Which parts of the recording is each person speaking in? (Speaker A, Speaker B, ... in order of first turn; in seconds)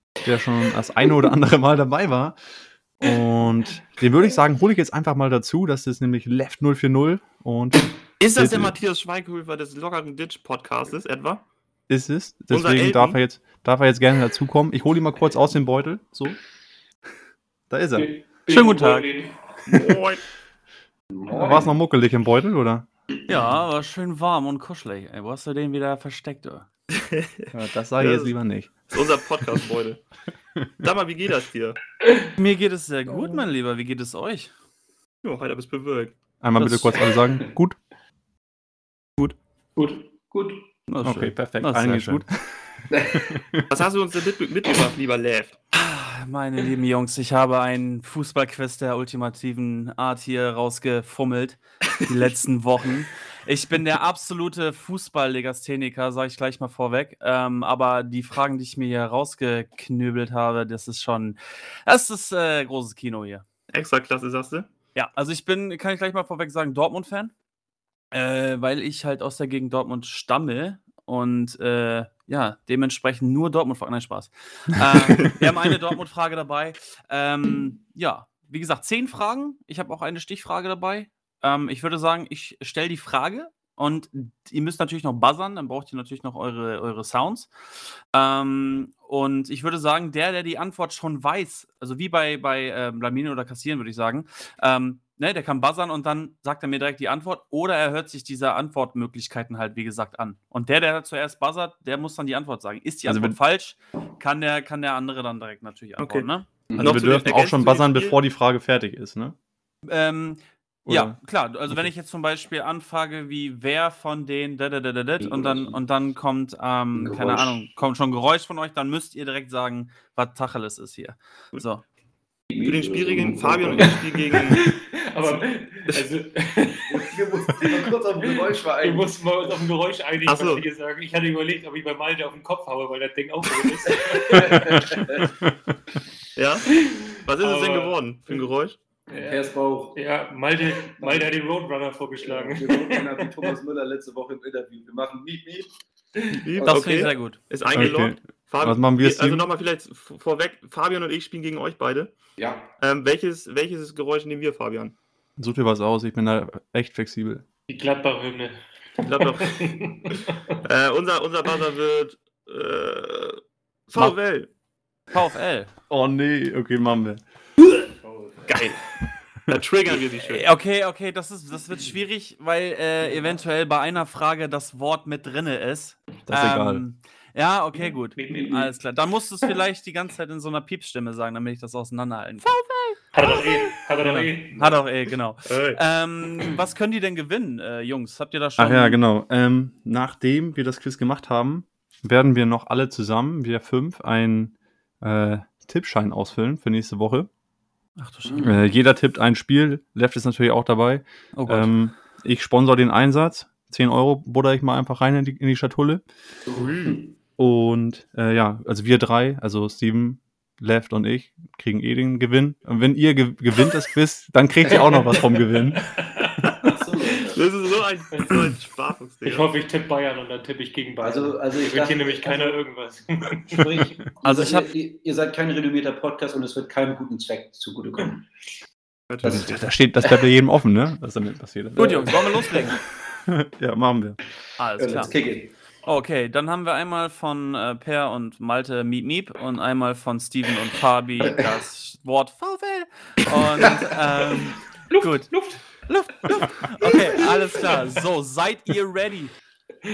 Speaker A: 0.2-2.4, 3.0-8.7, 11.9-16.4, 17.7-18.1, 21.3-22.9, 27.5-29.0, 30.6-30.9, 36.4-37.8, 41.0-43.7, 103.0-103.4, 106.8-109.3, 110.8-111.2, 135.2-135.8, 147.7-149.5, 155.4-157.4, 165.9-167.2, 176.3-176.8, 188.6-197.3, 198.4-206.0, 207.4-216.0, 229.2-232.3, 233.1-234.2
Speaker B: 8.2-11.4, 12.5-13.2, 19.7-20.2, 26.9-28.4, 28.9-30.0, 30.8-31.8, 35.2-36.1, 43.7-45.6, 63.7-64.7, 106.0-108.2, 122.6-124.7, 125.2-126.0, 130.2-130.7, 133.6-133.9, 136.3-138.8, 146.4-152.1, 152.8-154.9, 159.0-164.5, 168.5-168.8, 169.4-170.4, 185.4-185.8, 217.3-219.5, 229.1-229.6
Speaker C: 17.9-20.0, 39.8-40.1, 124.5-135.3, 136.7-138.4, 139.1-143.6, 157.7-160.6, 178.2-178.7, 183.1-184.8, 215.8-216.7, 218.1-218.4, 219.2-223.7, 245.3-245.6
Speaker D: 18.4-19.1, 23.3-26.7, 32.4-34.5, 36.6-36.9, 40.9-42.2, 45.7-63.4, 64.9-67.3, 68.1-87.5, 88.1-106.5, 109.8-121.8, 146.6-147.4, 165.1-165.7, 170.2-189.0, 198.0-198.5, 201.3-201.8, 224.2-224.7, 231.8-232.8, 234.6-235.2, 235.8-249.3
Speaker E: 21.1-21.7, 40.3-40.6, 42.9-43.3, 106.7-107.0, 115.2-115.8, 117.0-117.6, 122.5-124.6, 126.8-129.6, 133.9-135.3, 139.1-140.0, 141.0-141.3, 142.2-145.7, 146.3-147.1, 152.4-152.7, 168.0-168.5, 198.2-198.5, 206.5-207.1, 216.5-217.4, 221.0-222.6, 223.5-228.3, 229.2-230.2, 231.8-232.7, 234.8-235.5